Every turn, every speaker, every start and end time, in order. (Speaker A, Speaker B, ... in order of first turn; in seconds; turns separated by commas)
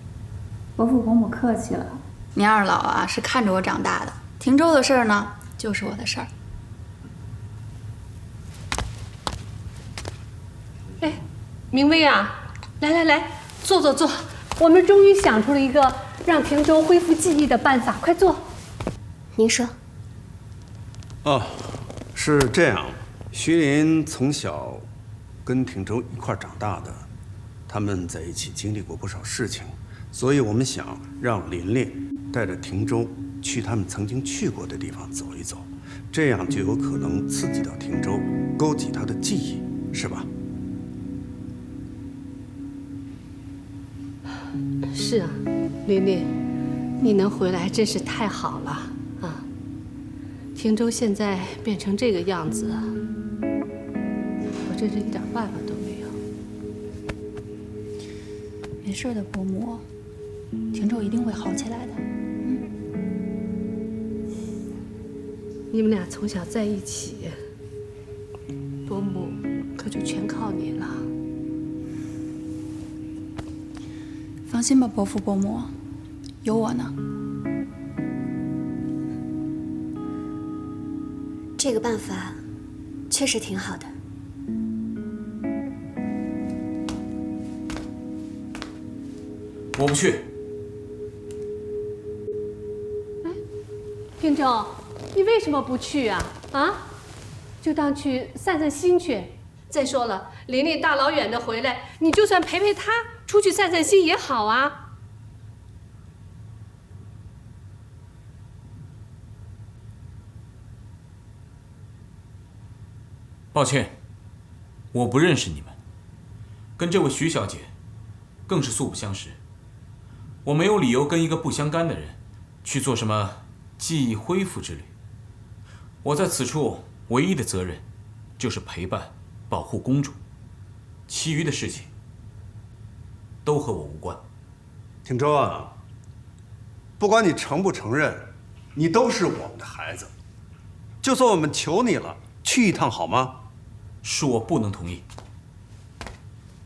Speaker A: 0.8-6.3, Speaker B: 11.7-18.4, Speaker C: 19.3-19.8, Speaker D: 21.2-24.9, Speaker D: 25.4-27.1, Speaker D: 27.7-40.3, Speaker B: 44.9-46.3, Speaker B: 47.0-49.5, Speaker B: 50.5-52.9, Speaker B: 54.6-56.1, Speaker A: 58.8-59.8, Speaker A: 60.7-62.6, Speaker B: 65.7-67.4, Speaker B: 68.8-71.0, Speaker A: 74.5-75.7, Speaker A: 76.4-76.9, Speaker C: 81.6-82.4, Speaker C: 83.1-83.9, Speaker E: 89.7-90.3, Speaker B: 94.2-96.8, Speaker B: 97.6-104.8, Speaker E: 113.5-114.0, Speaker E: 114.9-115.8, Speaker E: 116.8-117.7, Speaker E: 118.5-119.4, Speaker E: 120.4-124.9, Speaker E: 126.0-127.8, Speaker E: 128.4-130.2, Speaker E: 131.1-131.9, Speaker E: 133.4-134.2, Speaker D: 135.0-135.7, Speaker D: 137.0-140.1, Speaker D: 141.0-143.4, Speaker E: 144.0-145.0